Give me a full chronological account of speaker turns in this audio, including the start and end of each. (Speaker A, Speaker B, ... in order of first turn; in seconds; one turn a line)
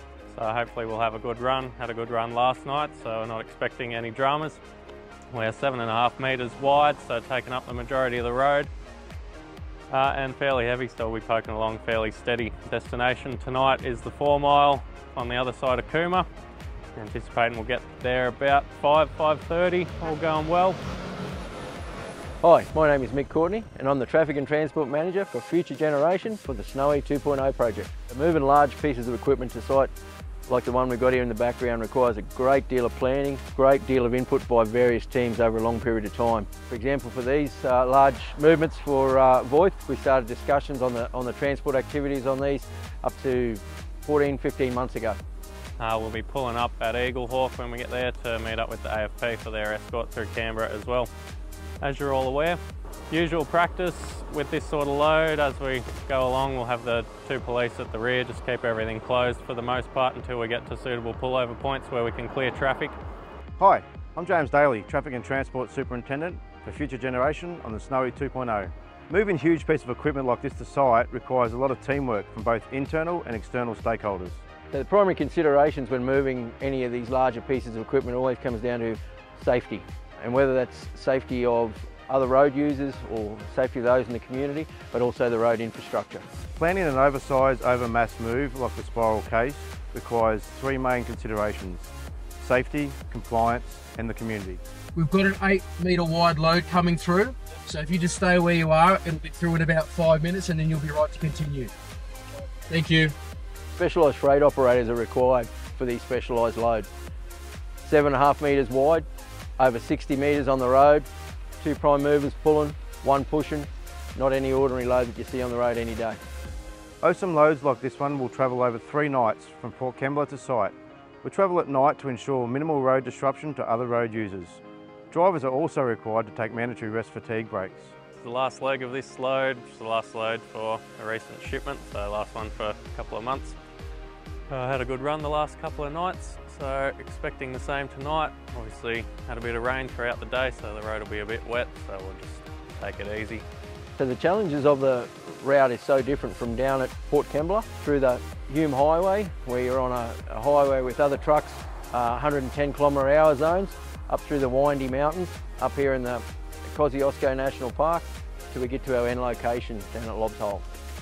Speaker A: 0.3-4.6
Speaker A: 5.3-8.7
Speaker A: 9.9-16.3
Speaker A: 17.0-20.8
Speaker B: 22.4-29.9
Speaker B: 30.5-45.2
Speaker A: 45.8-51.1
Speaker A: 51.8-52.6
Speaker A: 53.1-63.0
Speaker C: 63.6-74.4
Speaker B: 74.7-86.2
Speaker C: 86.5-94.6
Speaker D: 95.0-101.7
Speaker D: 102.7-103.1
Speaker B: 103.8-106.9
Speaker B: 107.8-109.1
Speaker B: 109.6-111.1
Speaker B: 111.6-116.2
Speaker C: 117.0-128.0
Speaker A: 128.2-133.6
Speaker A: 134.5-143.5
Speaker B: 144.0-160.6